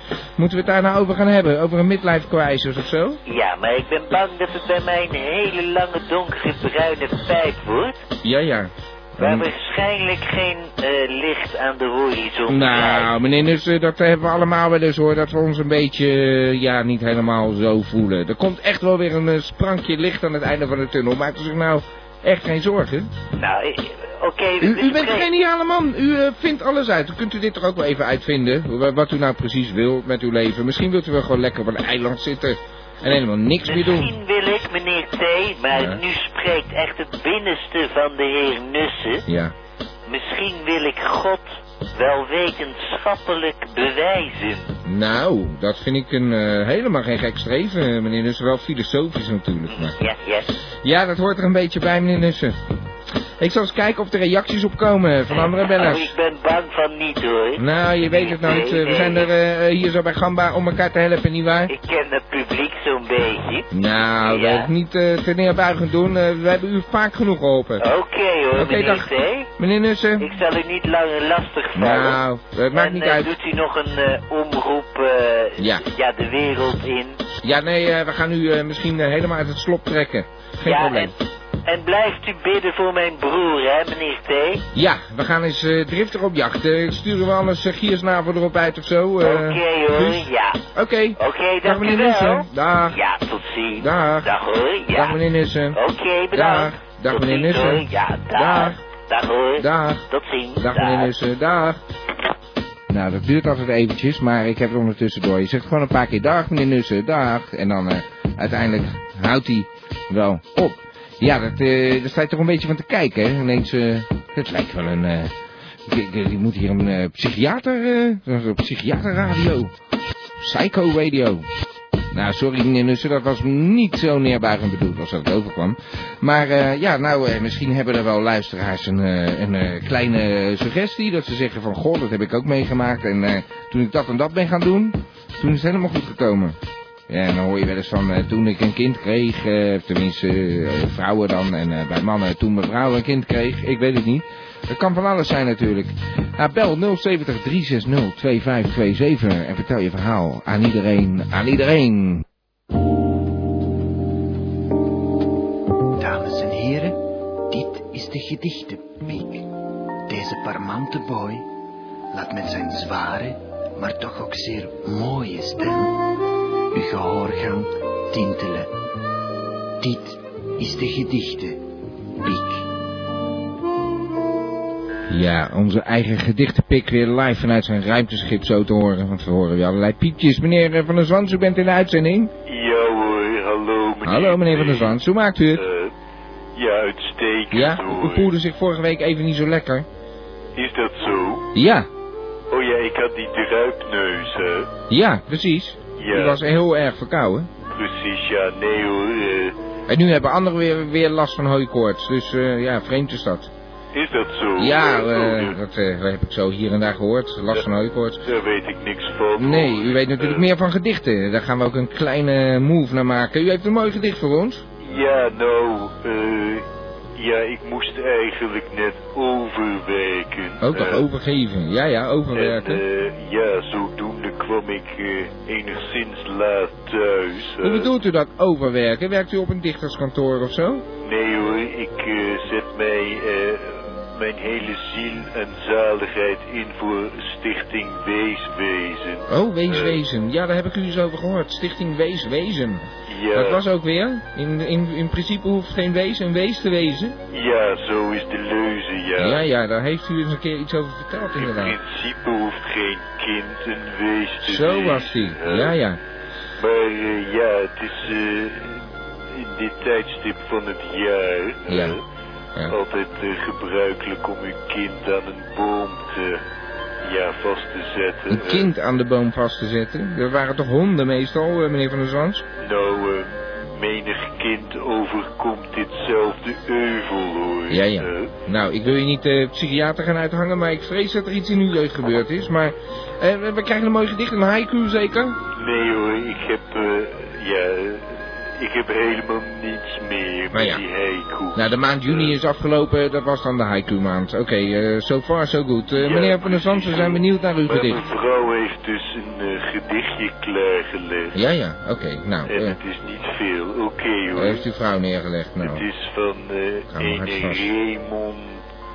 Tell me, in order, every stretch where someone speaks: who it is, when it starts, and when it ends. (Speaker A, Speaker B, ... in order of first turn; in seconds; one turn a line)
Speaker A: 0.4-3.2
Speaker B: 3.2-8.1
Speaker A: 8.2-9.5
Speaker B: 9.2-13.1
Speaker A: 12.5-23.1
Speaker B: 23.3-25.3
Speaker A: 24.6-34.1
Speaker B: 33.6-39.2
Speaker A: 35.7-36.0
Speaker A: 39.3-39.5
Speaker B: 40.1-44.7
Speaker A: 44.8-50.0
Speaker B: 49.7-50.5
Speaker A: 50.8-52.6
Speaker A: 53.4-56.1
Speaker B: 55.3-59.3
Speaker A: 57.6-61.7
Speaker B: 61.7-63.7
Speaker A: 63.7-67.8
Speaker B: 64.2-64.7
Speaker B: 67.8-69.5
Speaker A: 68.5-70.3
Speaker B: 70.2-72.2
Speaker A: 71.8-73.3
Speaker B: 72.7-77.2
Speaker A: 75.6-75.8
Speaker A: 77.4-81.1
Speaker B: 80.7-81.1
Speaker B: 81.7-84.6
Speaker A: 84.7-93.0
Speaker B: 89.2-90.6
Speaker B: 91.2-95.2
Speaker A: 93.8-94.3
Speaker A: 94.9-95.8
Speaker B: 95.7-101.1
Speaker A: 96.3-98.8
Speaker A: 99.6-100.0
Speaker A: 100.6-101.8
Speaker A: 102.9-115.3
Speaker A: 115.8-119.7
Speaker A: 120.4-121.4
Speaker A: 122.1-136.6
Speaker A: 137.1-152.2
Speaker C: 155.9-157.0
Speaker C: 157.5-159.5
Speaker C: 160.1-161.4
Speaker C: 162.1-165.9
Speaker C: 166.7-168.7
Speaker C: 169.8-171.6
Speaker C: 172.2-172.7
Speaker A: 175.1-182.3
Speaker D: 182.5-184.9
Speaker A: 184.0-185.7
Speaker D: 185.6-185.9
Speaker D: 186.6-188.3
Speaker A: 187.5-189.8
Speaker D: 190.6-191.4
Speaker A: 191.5-191.9
Speaker D: 192.5-194.7
Speaker A: 194.9-197.5
Speaker D: 196.0-196.4
Speaker D: 197.7-199.5
Speaker A: 199.9-203.5
Speaker D: 203.9-205.6
Speaker A: 204.6-208.2
Speaker D: 208.2-210.4
Speaker A: 209.4-214.6
Speaker D: 214.8-216.6
Speaker D: 217.2-221.0
Speaker A: 220.6-222.8
Speaker D: 222.3-227.9
Speaker A: 227.6-230.8
Speaker D: 231.0-240.0
Speaker A: 239.3-242.8
Speaker D: 243.1-243.6
Speaker A: 243.3-247.2
Speaker D: 247.3-249.4
Speaker A: 249.2-251.8
Speaker D: 251.4-255.7
Speaker A: 254.4-256.0
Speaker D: 256.6-258.8
Speaker D: 259.3-262.0
Speaker A: 261.7-262.0
Speaker D: 262.7-266.4
Speaker D: 267.0-268.7
Speaker A: 268.3-272.4
Speaker D: 272.6-278.3
Speaker A: 277.7-285.4
Speaker D: 285.6-292.3
Speaker A: 290.5-290.8
Speaker A: 291.5-298.0
Speaker D: 296.0-301.4
Speaker A: 301.3-302.8
Speaker D: 302.5-304.6
Speaker A: 304.3-305.9
Speaker D: 305.6-308.6
Speaker A: 306.9-307.7